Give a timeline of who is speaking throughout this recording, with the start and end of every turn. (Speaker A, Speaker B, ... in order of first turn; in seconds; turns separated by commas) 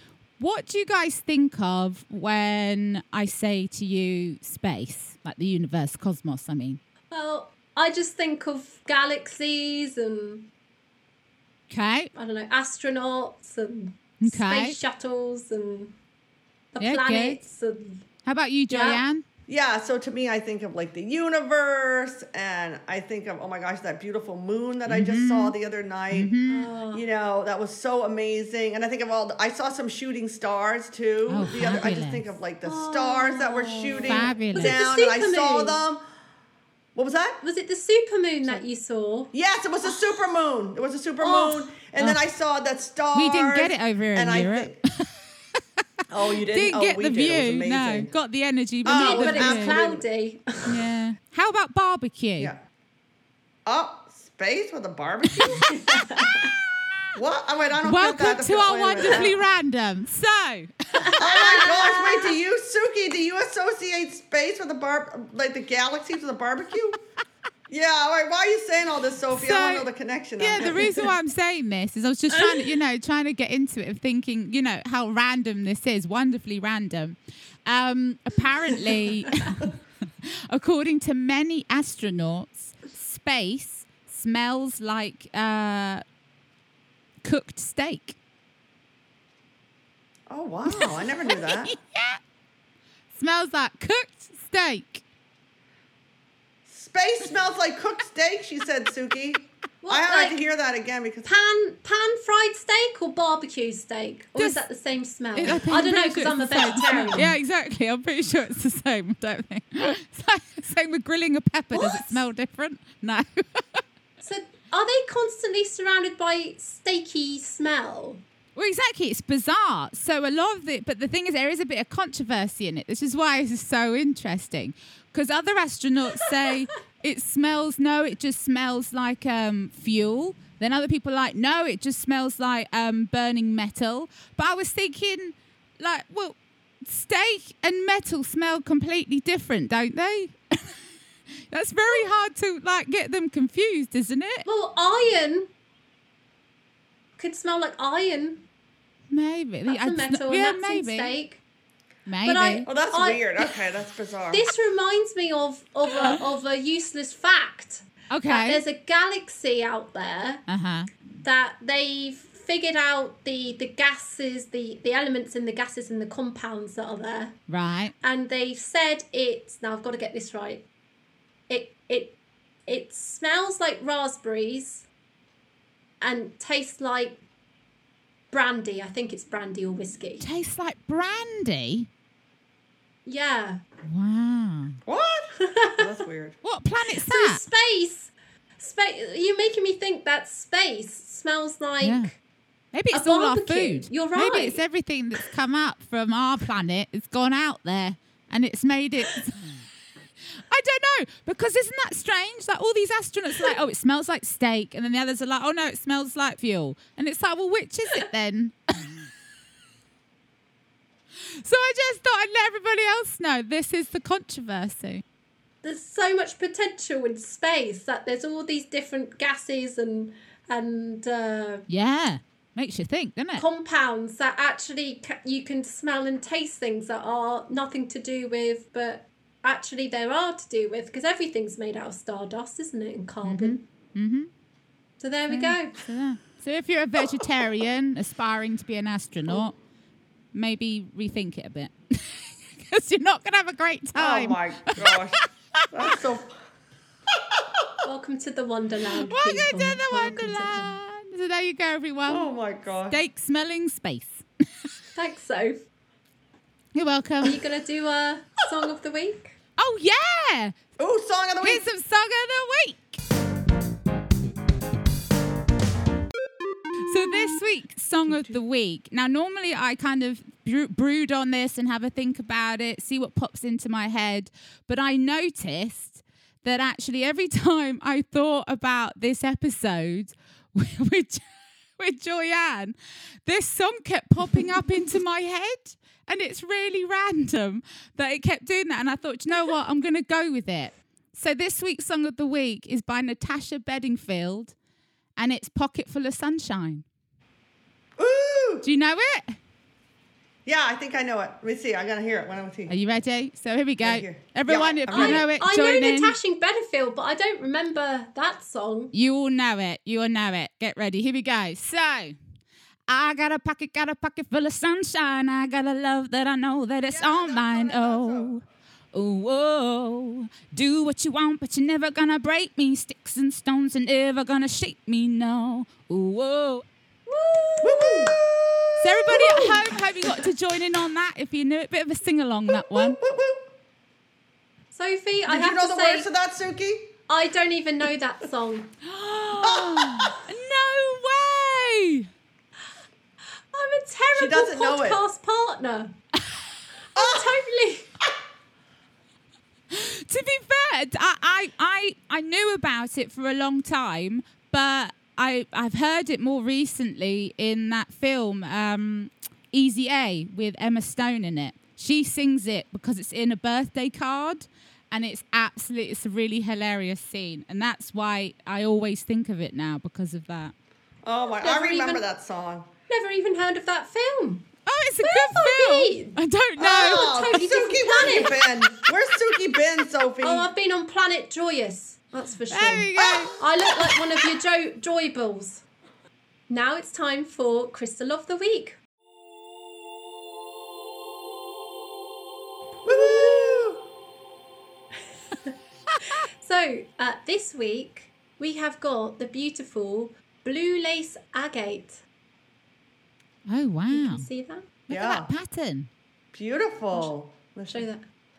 Speaker A: 0.4-6.8, Speaker B: 7.1-10.5, Speaker A: 11.7-12.1, Speaker B: 12.1-15.9, Speaker A: 14.2-14.8, Speaker B: 16.7-18.0, Speaker A: 16.8-17.4, Speaker A: 18.2-19.2, Speaker B: 18.7-19.0, Speaker C: 19.5-26.3, Speaker A: 24.9-25.5, Speaker A: 26.1-26.7, Speaker B: 26.4-27.0, Speaker C: 26.9-36.0, Speaker A: 31.3-32.2, Speaker B: 32.6-35.8, Speaker A: 34.0-34.8, Speaker C: 36.9-37.4, Speaker B: 37.4-39.3, Speaker C: 39.3-44.8, Speaker B: 41.2-41.7, Speaker A: 43.1-45.6, Speaker C: 46.1-48.1, Speaker A: 46.5-49.8, Speaker C: 48.8-50.0, Speaker B: 48.9-50.7, Speaker A: 50.6-52.5, Speaker C: 53.6-55.7, Speaker B: 55.4-56.5, Speaker C: 57.1-59.3, Speaker A: 57.8-61.7, Speaker B: 61.0-62.3, Speaker C: 61.2-67.0, Speaker C: 67.7-71.1, Speaker A: 69.3-69.9, Speaker A: 70.4-79.8, Speaker C: 72.3-72.7, Speaker A: 80.5-86.0, Speaker A: 87.2-88.2, Speaker C: 90.3-91.8, Speaker A: 90.7-92.2, Speaker A: 93.1-95.0, Speaker C: 96.7-101.3, Speaker B: 99.8-100.4, Speaker B: 101.2-107.3, Speaker A: 104.3-104.6, Speaker A: 105.3-113.8, Speaker B: 111.7-112.3, Speaker B: 114.2-118.2, Speaker A: 118.5-140.7, Speaker A: 141.5-144.5, Speaker B: 144.4-145.5, Speaker B: 147.2-148.5, Speaker A: 149.1-151.2, Speaker B: 149.7-151.4, Speaker A: 152.1-152.7, Speaker B: 152.2-153.6, Speaker C: 152.7-154.4, Speaker B: 154.3-160.4, Speaker A: 158.1-158.6, Speaker A: 160.5-160.9, Speaker B: 161.2-167.4, Speaker A: 167.5-167.9, Speaker B: 168.0-170.7, Speaker B: 171.5-174.9, Speaker B: 176.0-177.2, Speaker B: 178.3-180.3, Speaker A: 180.2-181.9, Speaker B: 183.1-183.6, Speaker A: 183.8-184.8, Speaker C: 184.8-186.4, Speaker B: 185.4-185.9, Speaker A: 186.4-187.4, Speaker B: 186.9-192.2, Speaker A: 191.8-192.1, Speaker A: 192.7-199.6, Speaker B: 192.9-194.6, Speaker A: 200.5-209.1, Speaker A: 211.3-215.0, Speaker B: 215.6-221.7, Speaker A: 221.7-223.4, Speaker B: 223.3-233.6, Speaker A: 233.2-234.3, Speaker B: 235.0-235.8, Speaker A: 235.3-239.6, Speaker A: 240.3-245.3, Speaker C: 243.9-246.4, Speaker C: 247.3-247.7, Speaker B: 247.8-250.7, Speaker A: 248.9-254.7, Speaker C: 252.1-253.0, Speaker B: 254.9-255.6, Speaker A: 256.7-257.4, Speaker B: 257.2-259.4, Speaker A: 259.6-260.6, Speaker C: 260.8-261.6, Speaker A: 261.4-263.0, Speaker A: 266.8-281.2, Speaker C: 268.1-268.3, Speaker A: 281.8-294.5, Speaker A: 295.2-296.8, Speaker C: 298.0-298.6, Speaker A: 298.6-299.4, Speaker C: 300.4-302.7, Speaker A: 302.7-306.1, Speaker C: 303.8-305.2, Speaker B: 304.9-308.9, Speaker A: 308.9-312.1, Speaker A: 312.9-318.4, Speaker C: 316.9-318.3, Speaker A: 318.9-326.6, Speaker B: 327.1-328.1, Speaker C: 327.6-330.2, Speaker A: 328.8-333.0, Speaker C: 332.5-333.5, Speaker B: 334.7-336.1, Speaker C: 335.3-336.9, Speaker B: 337.1-338.7, Speaker A: 338.8-342.1, Speaker C: 339.4-340.1, Speaker B: 343.5-345.9, Speaker C: 344.1-345.0, Speaker B: 346.9-347.9, Speaker C: 346.9-347.3, Speaker A: 349.7-370.5, Speaker C: 371.0-372.7, Speaker B: 371.4-372.0, Speaker B: 372.9-374.4, Speaker A: 374.7-377.3, Speaker B: 375.0-376.2, Speaker C: 376.6-380.5, Speaker B: 376.7-378.4, Speaker B: 380.2-385.6, Speaker A: 382.5-383.4, Speaker C: 383.0-383.4, Speaker B: 386.5-388.8, Speaker C: 392.8-393.8, Speaker B: 392.9-393.6, Speaker B: 396.1-402.0, Speaker A: 403.5-404.3, Speaker B: 403.9-404.7, Speaker A: 404.9-405.9, Speaker C: 404.9-405.3, Speaker C: 406.3-407.9, Speaker B: 407.7-408.1